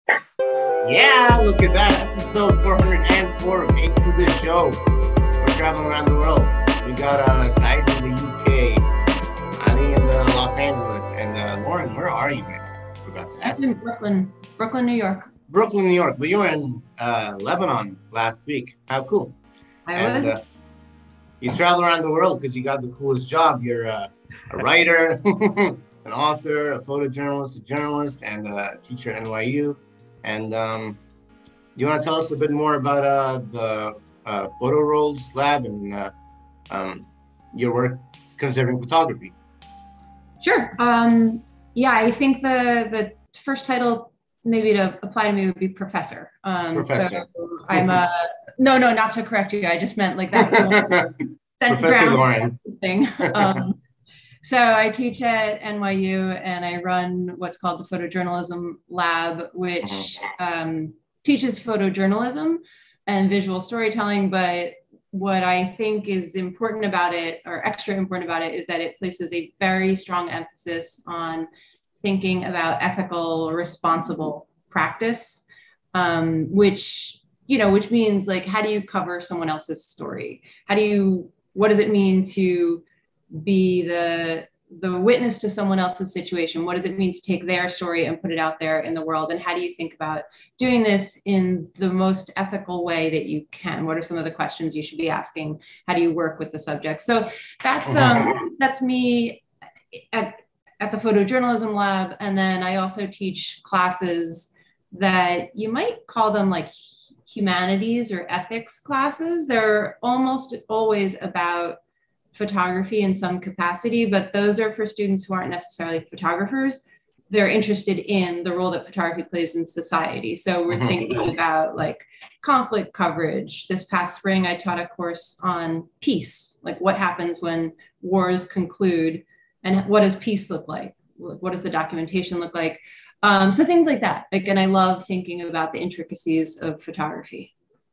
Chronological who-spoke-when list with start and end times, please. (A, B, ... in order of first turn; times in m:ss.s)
0:00.8-0:04.8 A
0:05.4-0:08.8 A
0:09.6-0:13.6 A
0:13.4-0:15.3 B
0:15.5-0:19.4 A
0:19.9-0:20.3 B
0:19.9-0:20.4 A
0:21.4-0:31.0 A
0:31.8-0:36.1 A
0:36.7-0:39.4 A
0:40.4-0:51.0 B
0:46.8-0:47.9 A
0:50.4-0:52.6 A
0:51.6-0:53.8 B
0:53.3-0:53.6 A
0:54.4-1:11.5 B
1:12.0-1:51.8 B
1:37.8-1:38.3 A
1:52.3-2:17.5 B
2:00.7-2:01.2 A